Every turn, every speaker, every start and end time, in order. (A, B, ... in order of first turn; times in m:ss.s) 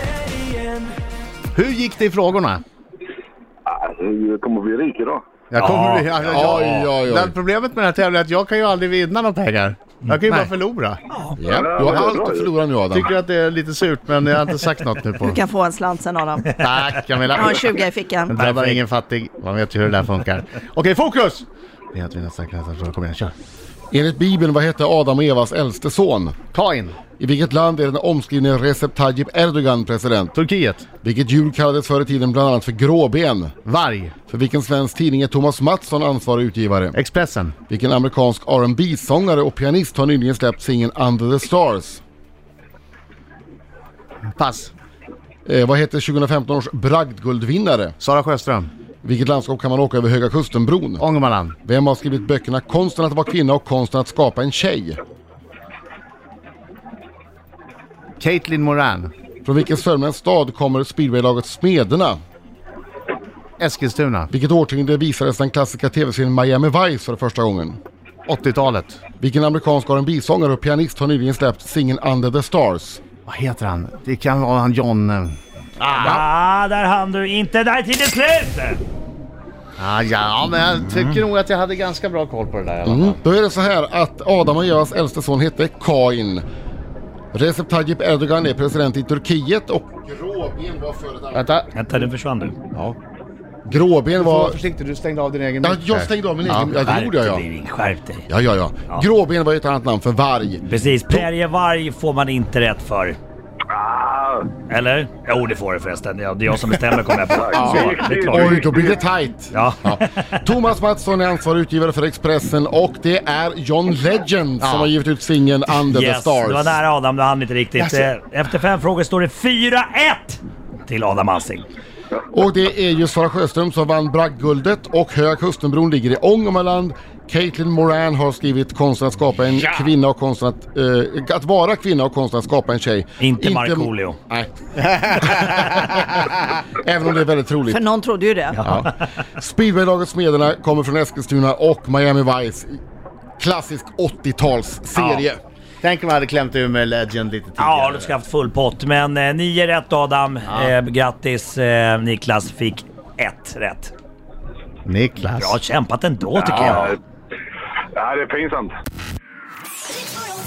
0:01.5-0:02.6 A
0:03.6-0:05.2 B
0:05.5-0:11.0 A
0:05.6-0:06.5 C
0:06.3-0:07.3 D
0:10.1-0:10.4 C
0:11.1-0:11.4 C
0:11.4-0:13.1 D
0:11.5-0:12.5 B
0:12.9-0:15.4 A
0:15.2-0:16.6 E
0:16.5-0:23.3 A
0:17.3-0:18.4 E
0:18.3-0:18.8 C
0:23.9-0:26.4 D
0:26.5-0:27.0 A
0:27.2-0:30.3 D
0:30.3-0:30.8 A
0:31.0-0:33.5 D
0:33.6-0:34.1 A
0:34.3-0:37.0 D
0:36.9-0:37.5 A
0:37.7-0:42.0 D
0:44.3-0:44.7 A
0:45.4-0:48.0 D
0:48.0-0:48.7 A
0:49.0-0:51.0 D
0:51.0-0:51.5 A
0:51.6-0:55.0 D
0:58.2-0:59.1 A
0:59.4-1:02.2 D
1:03.6-1:04.3 A
1:04.3-1:07.8 D
1:08.3-1:09.0 A
1:09.2-1:13.0 D
1:13.3-1:16.2 A
1:16.0-1:18.8 C
1:19.8-1:23.2 A
1:22.8-1:26.4 D
1:27.3-1:31.5 D
1:31.3-1:31.7 A
1:31.7-1:32.6 C
1:33.6-1:34.6 D
1:34.2-1:36.7 A
1:35.6-1:37.4 D
1:36.7-1:38.3 C
1:38.3-1:41.2 D
1:40.7-1:43.2 C
1:43.7-1:44.5 B
1:44.7-1:48.7 C
1:47.3-1:49.0 B
1:47.5-1:56.8 D
1:49.5-1:50.4 C
1:54.6-1:54.9 A
1:55.9-2:01.6 C
2:02.3-2:17.8 D
2:13.2-2:14.2 C
2:17.7-2:18.6 E
2:18.6-2:18.9 C
2:18.6-2:22.8 D
2:23.4-2:25.4 D
2:24.9-2:25.3 A
2:25.8-2:28.1 A
2:27.6-2:33.9 C
2:30.5-2:30.7 A
2:34.8-2:35.6 A
2:35.4-2:37.0 C
2:36.4-2:36.8 A
2:36.4-2:37.0 B
2:37.9-2:38.8 B